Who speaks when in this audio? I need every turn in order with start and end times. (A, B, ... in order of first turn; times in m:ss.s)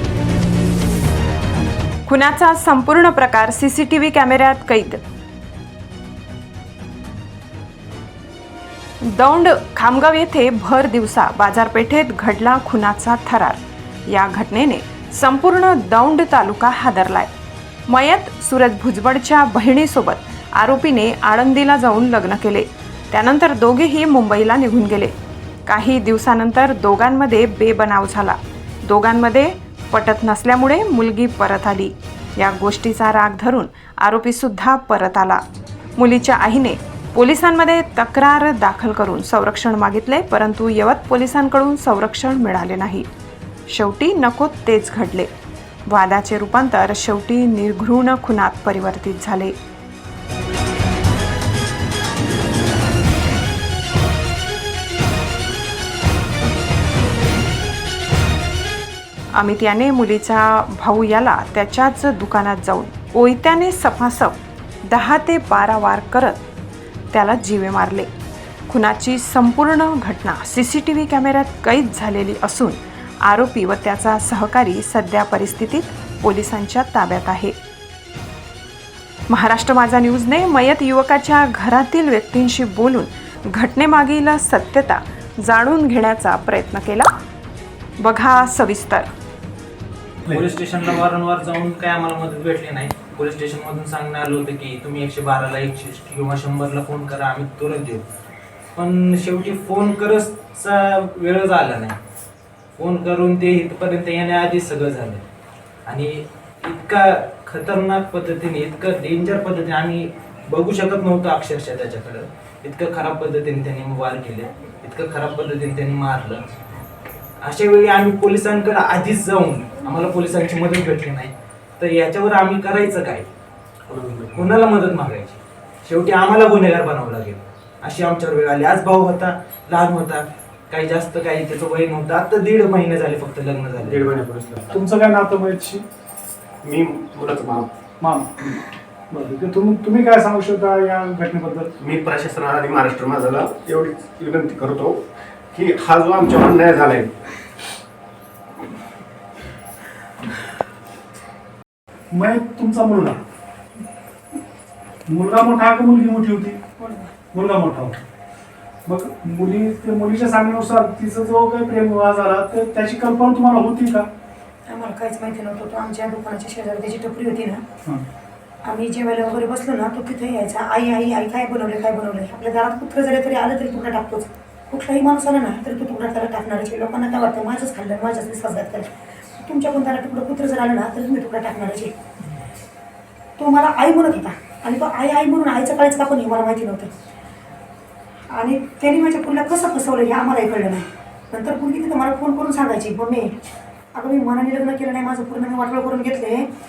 0:02.0-0:05.0 A
0:09.0-0:17.3 A
0:17.9-0:25.1 A
0:25.7-0:35.4 A
0:36.0-0:43.1 A
0:43.7-0:45.3 A
0:45.9-0:49.5 A
0:59.4-1:06.4 A
1:07.1-1:08.1 A
1:08.7-1:17.6 A
1:19.3-1:27.1 A
1:28.0-1:29.1 A
1:30.2-1:38.0 B
1:38.8-1:42.0 B
1:42.8-1:45.2 B
1:45.9-1:56.4 B
1:57.4-2:03.3 B
2:03.9-2:04.3 C
2:04.3-2:14.1 B
2:13.8-2:14.7 C
2:14.7-2:15.8 D
2:16.6-2:17.7 C
2:18.0-2:21.8 D
2:21.8-2:25.0 C
2:25.6-2:27.1 C
2:32.1-2:33.2 D
2:35.1-2:36.6 D
2:36.8-2:37.1 E
2:37.3-2:38.0 D
2:38.9-2:44.0 D
2:44.7-2:47.6 E
2:48.7-3:01.9 E
3:03.4-3:06.9 E
3:08.3-3:13.3 E
3:13.9-3:16.5 E